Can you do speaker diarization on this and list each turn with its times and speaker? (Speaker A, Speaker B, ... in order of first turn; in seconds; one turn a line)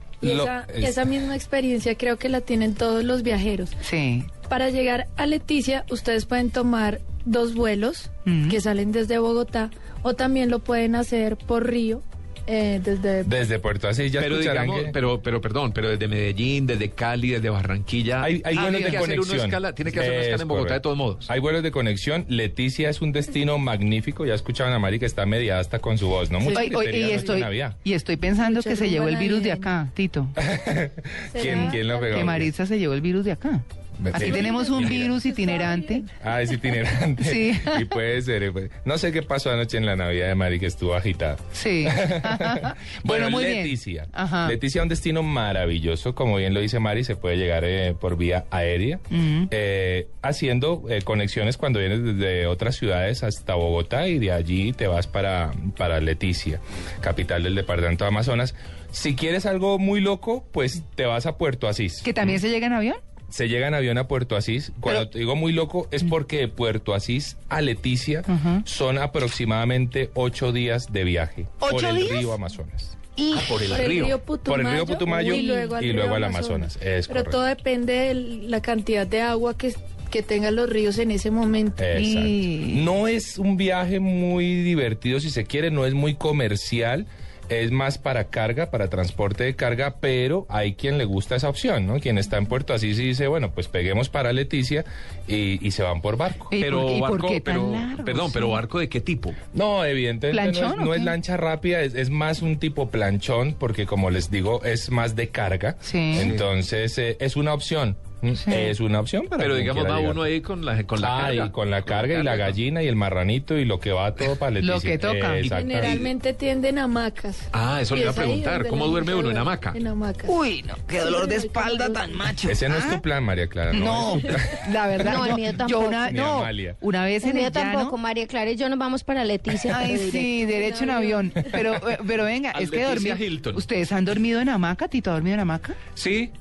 Speaker A: 0.2-3.8
Speaker B: 0.2-1.1
Speaker C: 3.8-4.3
Speaker A: 4.5-13.4
Speaker C: 8.2-8.6
Speaker B: 13.2-15.0
Speaker D: 14.2-21.3
Speaker B: 18.2-27.8
Speaker C: 18.5-19.0
Speaker A: 26.4-26.7
Speaker C: 26.5-30.4
Speaker A: 28.4-29.8
Speaker B: 30.4-32.5
Speaker A: 31.3-32.5
Speaker C: 31.4-36.1
Speaker B: 34.0-35.1
Speaker A: 34.1-36.3
Speaker B: 36.2-62.4
Speaker C: 37.2-37.9
Speaker C: 41.5-44.6
Speaker C: 49.1-49.5
Speaker C: 62.0-63.0
Speaker B: 63.3-73.0
Speaker C: 68.3-68.6
Speaker C: 71.6-72.4
Speaker C: 73.2-73.6
Speaker D: 73.3-74.2
Speaker A: 73.7-81.9
Speaker B: 74.5-77.4
Speaker C: 75.1-75.7
Speaker B: 81.8-96.5
Speaker C: 82.0-82.8
Speaker C: 96.5-98.6
Speaker D: 96.6-99.4
Speaker B: 99.5-110.2
Speaker C: 100.3-101.2
Speaker C: 105.8-106.3
Speaker D: 106.2-106.5
Speaker C: 108.4-108.7
Speaker D: 109.4-112.6
Speaker B: 111.0-116.1
Speaker C: 114.6-115.5
Speaker A: 115.5-120.4
Speaker D: 115.8-116.1
Speaker D: 117.5-119.8
Speaker C: 120.3-123.0
Speaker A: 120.9-122.2
Speaker B: 122.5-125.4
Speaker C: 123.7-128.0
Speaker E: 125.0-126.1
Speaker B: 126.0-126.8
Speaker E: 127.2-131.0
Speaker C: 129.7-135.8
Speaker A: 130.8-131.2
Speaker D: 132.5-133.6
Speaker D: 136.0-136.3